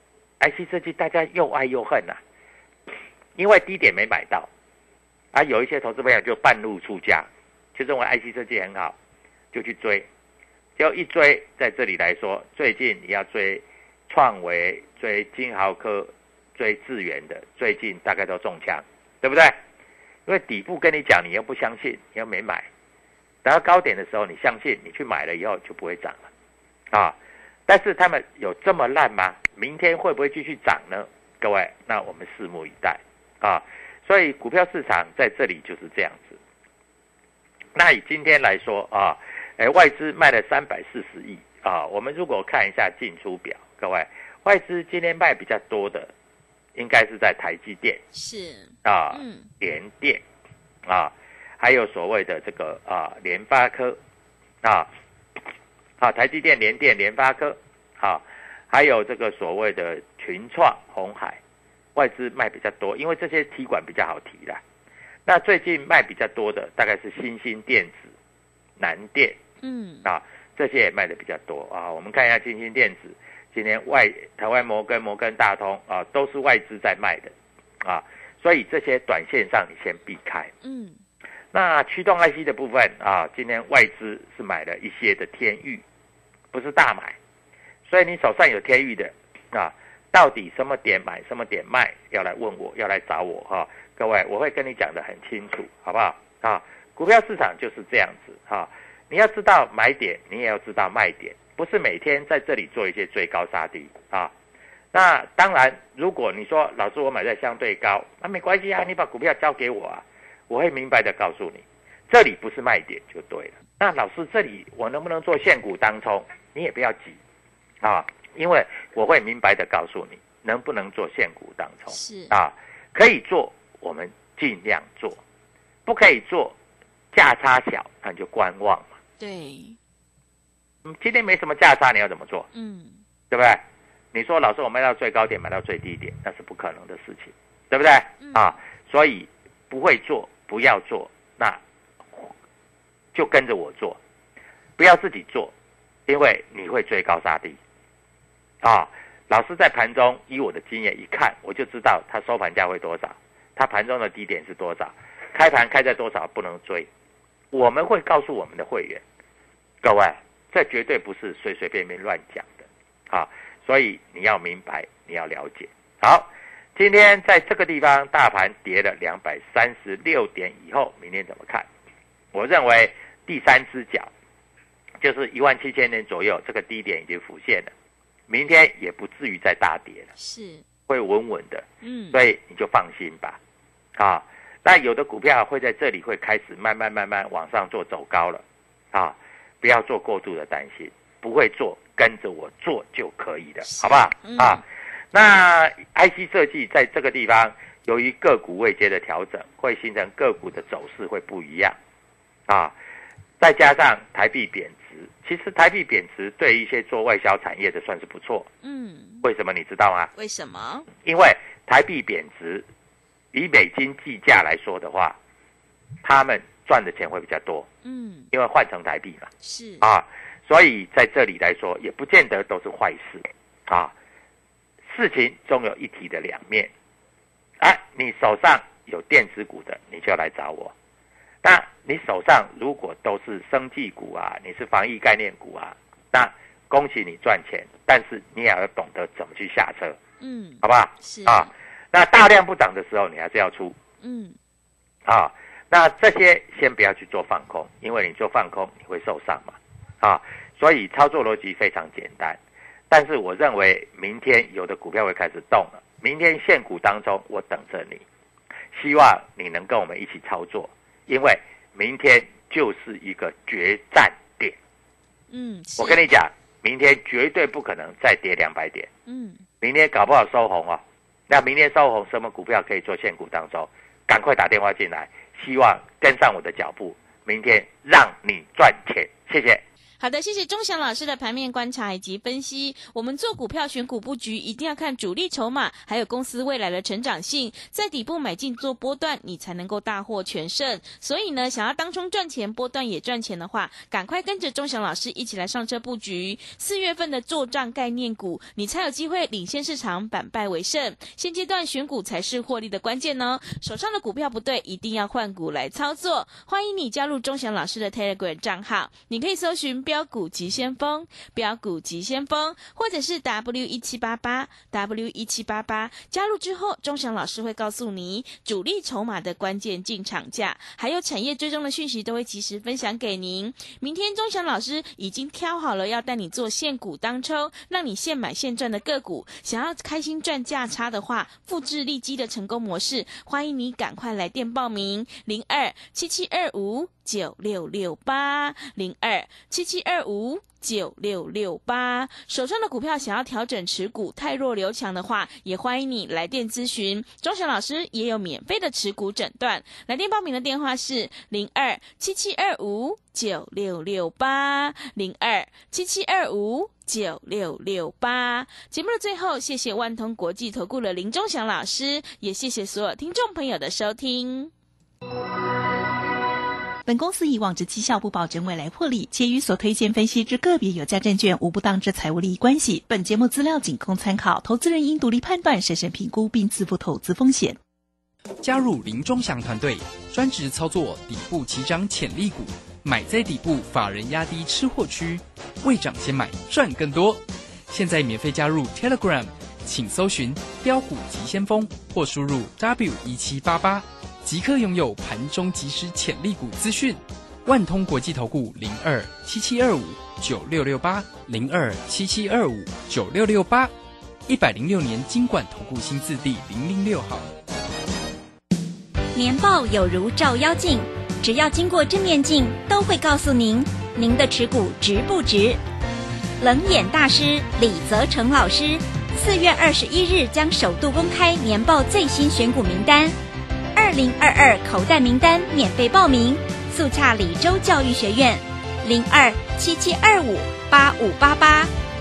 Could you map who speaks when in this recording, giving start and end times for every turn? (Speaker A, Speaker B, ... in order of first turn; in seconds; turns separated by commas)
Speaker A: 0.4-2.2, Speaker A: 3.4-4.5, Speaker A: 5.3-8.9, Speaker A: 9.5-10.1, Speaker A: 10.8-19.6, Speaker A: 20.3-22.7, Speaker A: 23.4-26.3, Speaker A: 27.7-36.4, Speaker A: 37.8-46.1, Speaker A: 46.8-48.0, Speaker B: 48.1-49.5, Speaker A: 48.9-50.2, Speaker A: 50.9-54.0, Speaker A: 54.6-54.9, Speaker A: 56.0-61.4, Speaker A: 62.0-64.6, Speaker A: 65.3-68.1, Speaker A: 68.8-69.4, Speaker B: 69.6-70.1, Speaker A: 70.0-80.5, Speaker B: 80.6-81.0, Speaker A: 81.5-85.8, Speaker A: 86.5-87.2, Speaker A: 87.9-104.3, Speaker A: 104.9-117.2, Speaker A: 117.8-125.2, Speaker B: 121.9-122.3, Speaker A: 125.9-126.5, Speaker A: 127.1-128.9, Speaker B: 129.2-129.8, Speaker A: 130.8-132.5, Speaker B: 132.5-133.0, Speaker A: 133.3-133.6, Speaker A: 134.1-141.6, Speaker B: 138.2-138.5, Speaker A: 143.1-144.0, Speaker A: 144.8-145.5, Speaker A: 146.1-147.6, Speaker A: 148.6-156.9, Speaker A: 157.5-159.0, Speaker A: 159.8-171.7, Speaker A: 172.3-174.1, Speaker A: 175.0-177.7, Speaker A: 178.3-180.1, Speaker B: 180.2-180.6, Speaker A: 180.9-183.4, Speaker B: 181.8-182.2, Speaker A: 184.0-188.4, Speaker A: 188.9-201.8, Speaker B: 193.7-194.6, Speaker A: 202.5-202.7, Speaker A: 203.4-208.5, Speaker B: 208.6-209.2, Speaker A: 209.2-210.1, Speaker B: 210.2-210.9, Speaker A: 211.0-212.7, Speaker A: 213.3-215.2, Speaker A: 216.0-217.7, Speaker B: 217.8-218.3, Speaker A: 218.3-219.3, Speaker B: 219.4-219.9, Speaker A: 219.8-223.9, Speaker A: 224.9-226.7, Speaker A: 227.6-230.7, Speaker A: 231.4-240.0, Speaker B: 240.2-241.5, Speaker A: 240.6-243.8, Speaker B: 244.0-244.4, Speaker A: 245.1-252.4, Speaker A: 252.9-258.0, Speaker A: 258.7-264.6, Speaker B: 265.3-266.0, Speaker A: 265.8-268.9, Speaker B: 269.1-269.4, Speaker A: 269.6-279.6, Speaker B: 280.0-364.5, Speaker C: 366.9-377.6, Speaker D: 378.4-403.7, Speaker D: 404.3-407.3, Speaker E: 409.1-415.6, Speaker E: 416.4-423.2, Speaker E: 423.8-431.7